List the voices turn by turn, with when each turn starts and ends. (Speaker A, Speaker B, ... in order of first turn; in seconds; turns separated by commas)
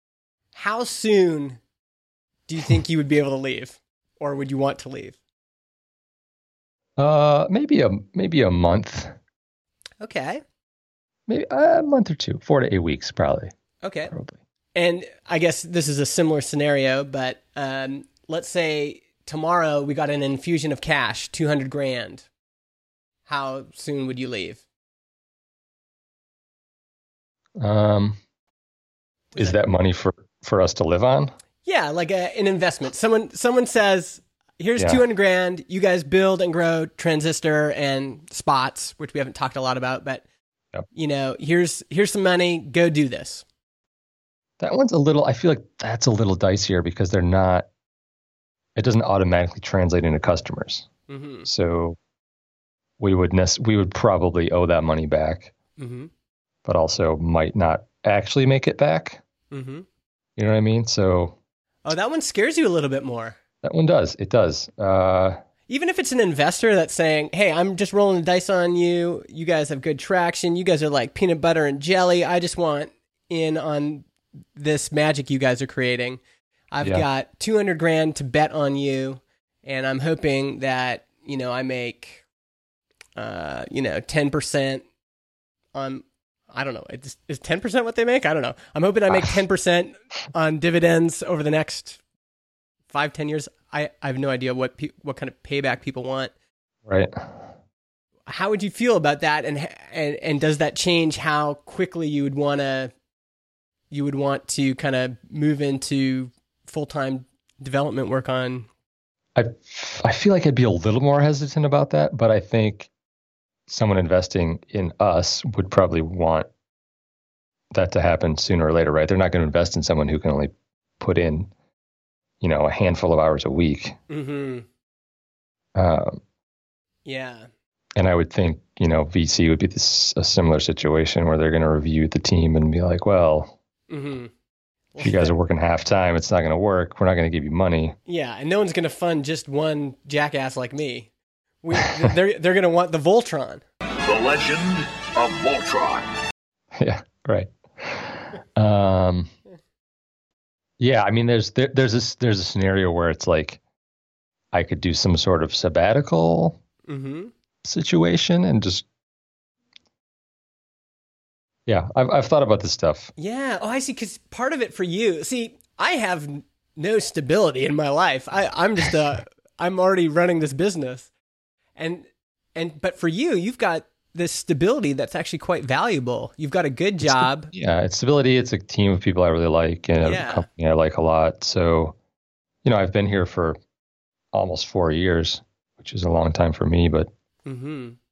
Speaker A: 0.5-1.6, Speaker A: 2.5-5.2, Speaker B: 7.0-9.1, Speaker A: 10.0-10.4, Speaker B: 11.3-13.5, Speaker A: 13.8-14.1, Speaker B: 14.1-14.4, Speaker A: 14.7-22.2, Speaker A: 23.3-24.6, Speaker B: 27.6-28.2, Speaker A: 29.3-29.6, Speaker B: 29.4-31.3, Speaker A: 31.6-40.2, Speaker A: 40.9-43.4, Speaker B: 44.6-47.7, Speaker B: 48.8-50.9, Speaker A: 51.1-51.5, Speaker B: 51.4-52.0, Speaker B: 53.0-55.5, Speaker A: 55.8-56.1, Speaker B: 56.6-59.2, Speaker A: 59.5-59.9, Speaker B: 60.4-61.4, Speaker A: 61.8-63.4, Speaker B: 63.6-65.4, Speaker A: 65.7-76.2, Speaker A: 76.7-82.2, Speaker A: 83.2-84.8, Speaker A: 85.7-92.0, Speaker B: 89.1-89.3, Speaker A: 92.9-96.3, Speaker B: 96.8-97.5, Speaker A: 98.3-102.9, Speaker A: 103.9-108.7, Speaker B: 109.3-112.9, Speaker B: 113.7-116.5, Speaker B: 117.7-121.5, Speaker B: 122.4-124.0, Speaker A: 124.1-124.7, Speaker B: 125.7-126.2, Speaker A: 127.0-127.5, Speaker B: 128.0-133.5, Speaker A: 133.9-134.3, Speaker A: 134.9-135.3, Speaker B: 135.0-138.0, Speaker A: 138.1-141.1, Speaker A: 141.6-143.6, Speaker C: 144.0-146.1, Speaker B: 146.8-149.3, Speaker B: 150.8-153.6, Speaker B: 154.5-156.6, Speaker A: 156.9-157.3, Speaker B: 157.6-158.8, Speaker B: 161.7-163.1, Speaker A: 163.2-171.1, Speaker A: 171.8-177.5, Speaker B: 177.0-181.9, Speaker A: 180.0-180.5, Speaker B: 182.6-183.6, Speaker B: 184.3-187.1, Speaker A: 187.4-188.0